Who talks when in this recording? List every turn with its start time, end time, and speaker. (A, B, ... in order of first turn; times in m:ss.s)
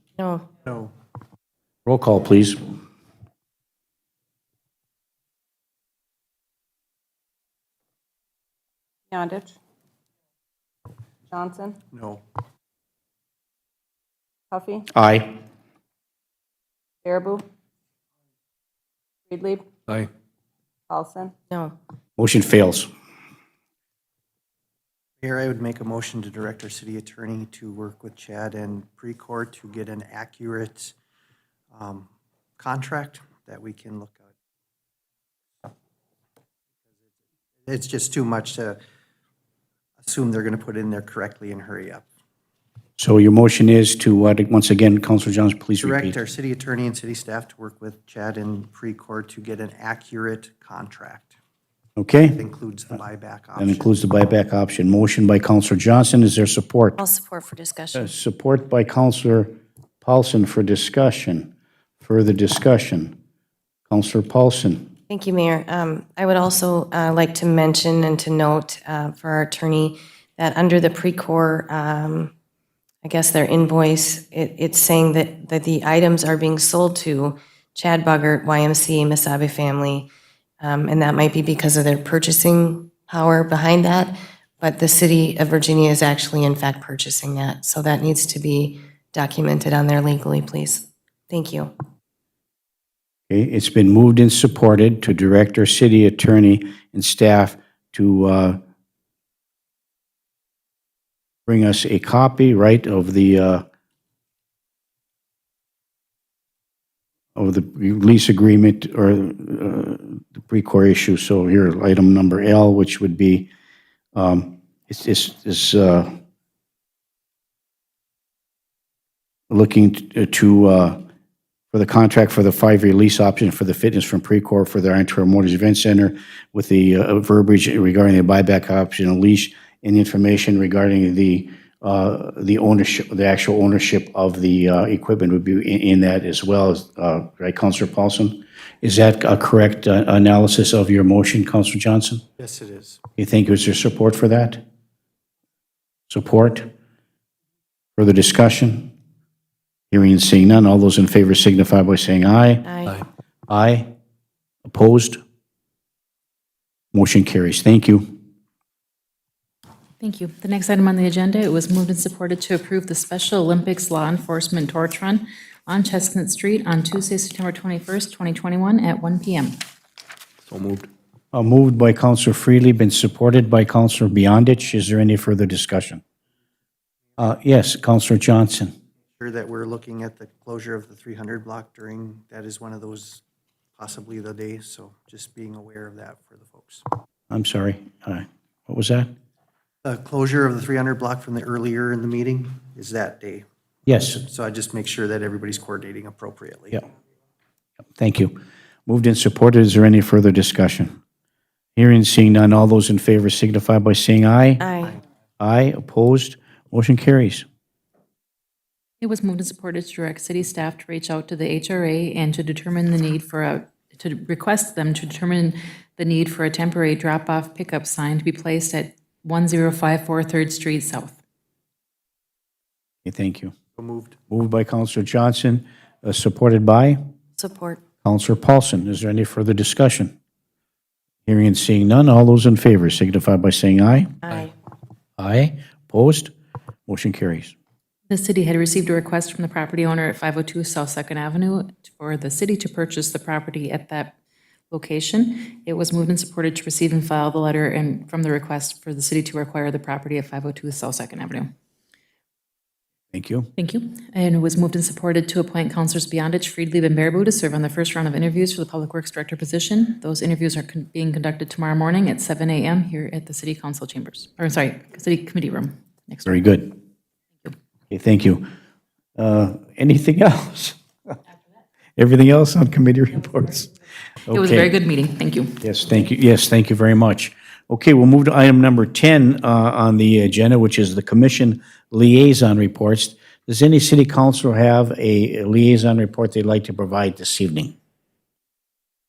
0:00.2-0:00.5 A
0:00.6-0:00.9 B
0:01.8-0:02.6 C
0:09.1-0:09.5 D
0:11.3-0:11.8 D
0:11.9-0:12.2 B
0:14.5-0:14.9 D
0:14.9-0:15.4 C
0:17.0-0:17.4 D
0:19.3-0:20.1 D
0:20.9-0:21.3 D
0:22.2-0:22.9 C
0:25.2-0:30.9 B
0:31.7-0:32.1 B
0:32.6-0:34.2 B
0:37.6-0:38.8 B
0:40.0-0:42.0 B
0:43.0-0:46.2 C
0:45.8-0:51.3 B
0:52.0-0:52.4 C
0:52.2-0:53.9 B
0:53.6-0:57.0 C
0:57.0-0:58.1 A
0:57.9-1:01.5 C
1:02.0-1:03.2 C
1:03.9-1:04.9 C
1:05.1-1:12.3 A
1:13.0-1:20.1 A
1:20.6-1:31.7 A
1:33.3-1:38.6 C
1:41.5-1:43.6 C
1:47.4-1:53.5 C
1:54.1-1:56.2 C
1:59.5-2:01.0 C
2:01.7-2:22.2 C
2:22.4-2:23.0 B
2:23.2-2:24.6 C
2:26.1-2:26.7 C
2:28.0-2:28.9 C
2:29.9-2:32.7 C
2:32.6-2:33.0 A
2:33.5-2:33.9 C
2:34.6-2:35.2 C
2:36.9-2:38.2 C
2:40.0-2:49.6 E
2:51.3-2:56.0 C
2:57.2-2:58.7 C
2:59.2-3:03.2 B
3:03.8-3:06.8 B
3:07.3-3:09.1 C
3:09.8-3:13.4 B
3:13.9-3:14.2 C
3:14.0-3:16.8 B
3:18.0-3:21.0 C
3:21.8-3:24.6 C
3:24.6-3:25.0 A
3:25.4-3:27.4 C
3:29.0-3:41.2 E
3:43.0-3:43.5 C
3:43.8-3:44.2 B
3:44.3-3:47.0 C
3:47.4-3:47.8 A
3:48.0-3:50.1 C
3:51.2-3:54.2 C
3:54.2-3:54.5 A
3:55.2-3:56.3 C
3:56.9-3:57.5 C
3:58.1-4:04.1 E
4:04.7-4:11.5 E
4:13.1-4:13.5 C
4:13.6-4:26.4 E
4:26.3-4:26.8 C
4:27.9-4:28.4 C
4:29.2-4:30.8 C
4:32.0-4:33.7 C
4:34.3-4:34.7 C
4:34.3-4:35.6 E
4:35.6-4:47.7 C